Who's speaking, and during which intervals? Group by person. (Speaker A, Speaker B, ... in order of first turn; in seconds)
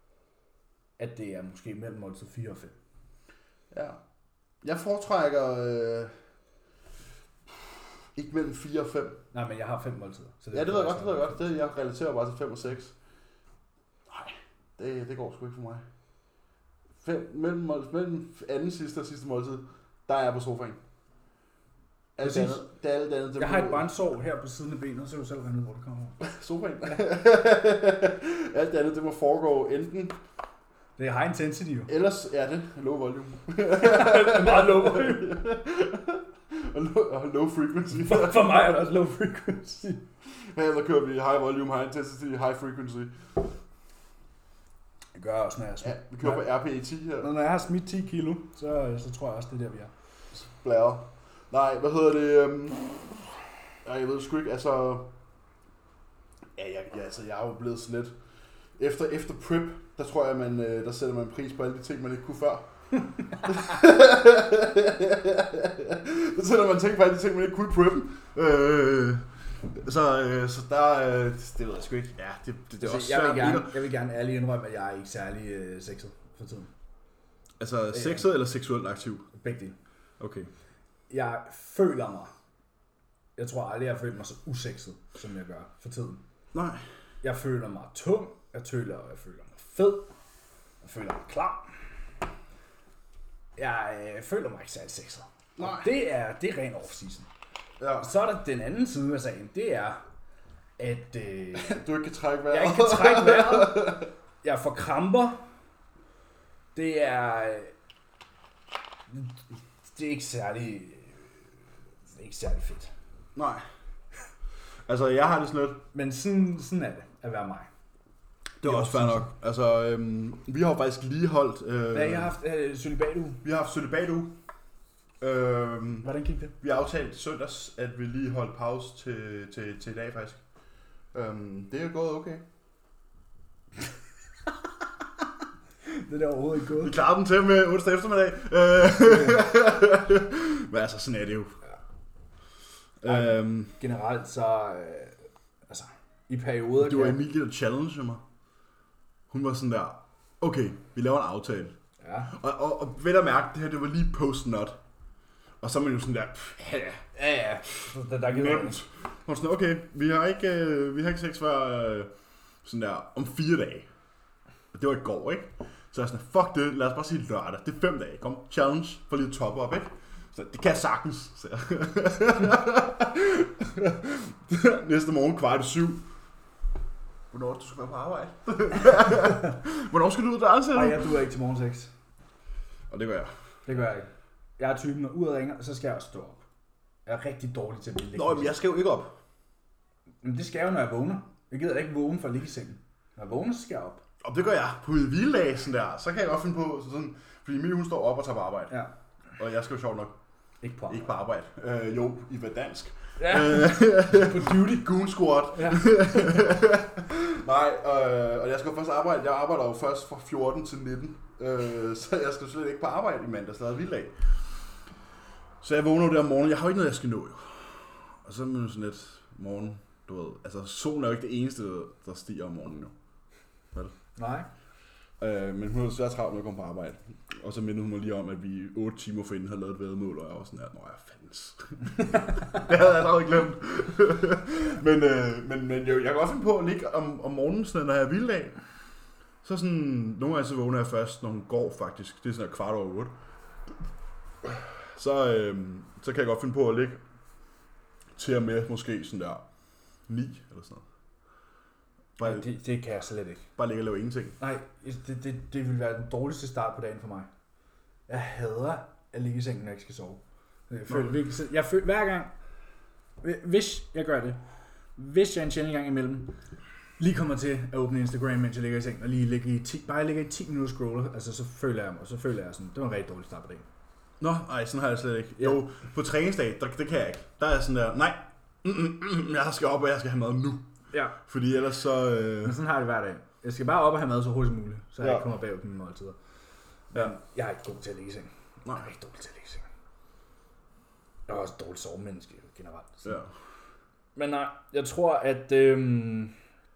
Speaker A: 1.0-2.7, 9.3-11.5, 22.2-22.6, 23.4-26.2, 31.0-31.9, 33.7-35.4, 37.9-40.0, 45.1-46.5, 47.2-49.9, 72.8-76.7, 77.9-78.3, 79.3-79.8, 81.1-82.3, 83.3-86.2, 87.2-90.1, 90.8-91.7, 93.6-97.3, 98.0-100.0, 100.8-101.8, 102.5-105.5, 106.7-107.7, 109.1-109.4, 109.9-111.3, 112.1-112.9, 115.9-117.7, 118.6-119.3, 121.9-123.4, 126.0-126.5, 135.8-137.0, 143.1-147.2, 152.0-152.3, 157.1-158.8, 180.7-181.9, 183.7-186.4, 187.1-188.6, 190.2-194.0, 200.6-201.1, 203.2-204.9, 205.5-206.2, 224.2-224.5, 252.2-253.5, 254.4-257.3, 258.1-262.3, 263.2-264.4, 265.0-266.4, 267.0-273.6, 282.4-286.1, 286.9-289.6, 291.3-293.2, 294.1-296.3
Speaker B: 3.7-4.0, 4.6-6.1, 7.5-9.2, 10.5-12.9, 14.1-15.8, 17.0-20.8, 22.1-23.9, 26.2-30.1, 31.9-38.6, 40.2-43.4, 45.8-47.3, 50.3-55.1, 56.5-58.1, 58.8-62.7, 63.4-73.8, 77.6-79.3, 80.2-80.5, 86.5-86.8, 95.6-95.9, 97.8-98.1, 101.5-104.1, 113.3-113.6, 114.9-115.8, 118.6-122.3, 123.4-124.3, 125.2-130.4, 131.1-132.4, 136.8-141.6, 143.0-143.8, 146.8-148.2, 149.3-151.7, 152.3-154.8, 155.6-157.0, 158.3-162.1, 162.6-163.9, 164.7-176.0, 177.3-181.1, 182.9-183.3, 188.1-189.2, 194.2-198.8, 199.4-200.2, 200.9-214.4, 215.6-222.9, 225.2-238.6, 239.4-243.1, 244.4-247.0, 248.2-249.4, 250.1-250.8, 252.2-252.4, 253.6-254.3, 260.9-261.2, 274.2-280.7, 281.2-282.6, 285.0-285.2, 293.0-293.3